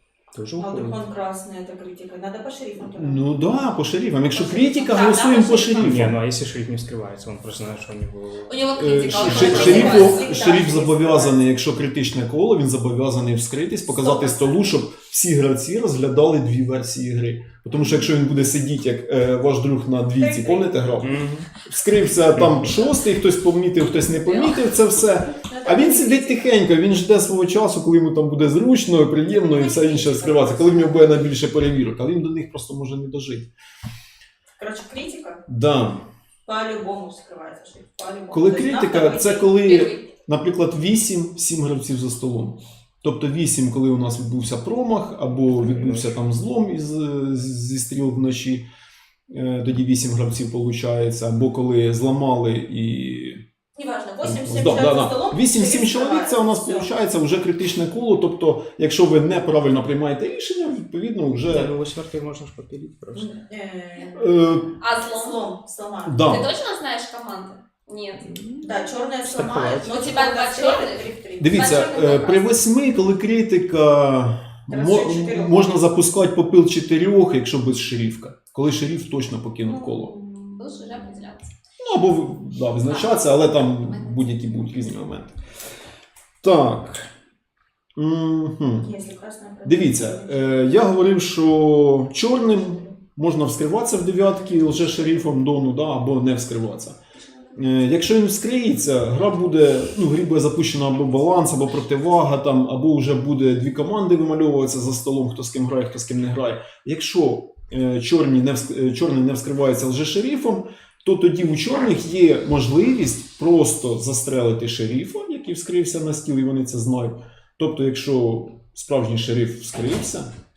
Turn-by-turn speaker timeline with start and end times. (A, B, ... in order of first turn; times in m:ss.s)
0:00.3-0:01.0 A
0:00.6-0:03.3 B
0:03.0-0:06.2 C
0:04.4-0:05.9 D
0:05.8-0:08.8 A
0:08.5-0:10.4 D
0:08.8-0:33.5 C
0:09.1-0:11.4 B
0:13.9-0:14.7 B
0:20.2-0:20.9 B
0:21.0-0:21.5 A
0:22.3-0:22.9 A
0:25.5-0:26.5 B
0:29.3-0:31.2 B
0:34.6-0:35.4 B
0:35.5-0:36.0 C
0:36.4-0:39.5 B
0:38.3-0:48.7 C
0:39.6-0:40.0 D
0:45.6-0:46.1 A
0:49.3-0:53.4 C
0:53.7-0:56.9 B
0:54.2-1:01.7 C
1:01.5-1:03.4 A
1:03.1-1:06.4 B
1:04.1-1:04.8 C
1:04.8-1:05.4 D
1:06.0-1:06.5 C
1:06.2-1:08.3 D
1:08.2-1:10.1 A
1:08.6-1:11.6 B
1:09.9-1:12.5 D
1:11.4-1:20.1 C
1:14.7-1:15.8 B
1:19.7-1:21.5 D
1:21.8-1:25.3 C
1:22.9-1:24.3 D
1:26.4-1:27.1 C
1:28.0-1:29.0 C
1:28.8-1:30.8 B
1:29.6-1:37.0 C
1:37.5-2:00.3 C